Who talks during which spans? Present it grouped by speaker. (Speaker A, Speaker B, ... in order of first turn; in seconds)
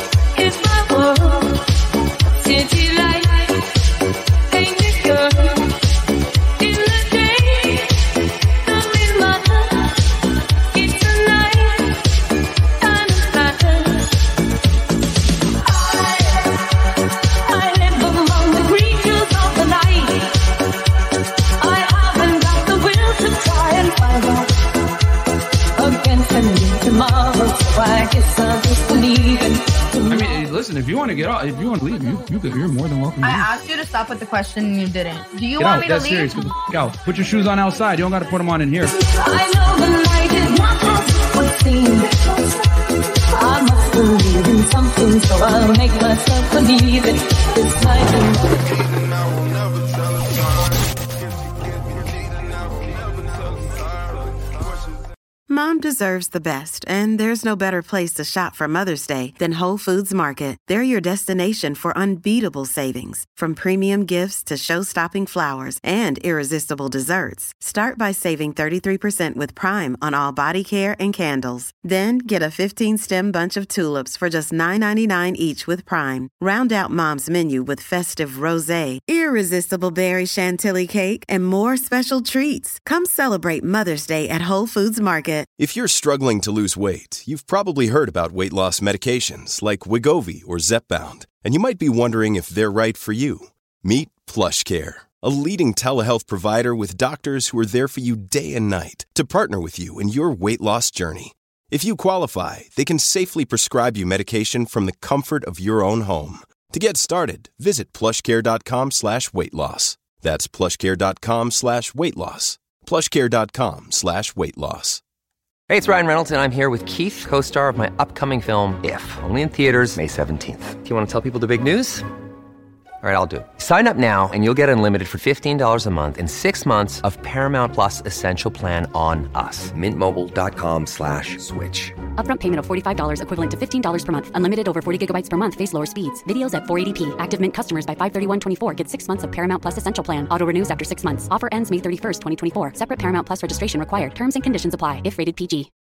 Speaker A: 0.3-1.7, 2.4-4.0, 4.5-5.8, 6.6-10.1, 10.7-12.2, 12.8-14.2, 15.6-20.7, 21.6-24.8, 25.8-30.5, 39.0-48.8
Speaker B: 30.1-33.5, 35.6-39.0
Speaker C: 33.2-36.5
Speaker D: 55.5-85.5
Speaker E: 85.6-115.0
Speaker F: 115.7-122.1, 123.0-131.9
Speaker G: 132.2-145.7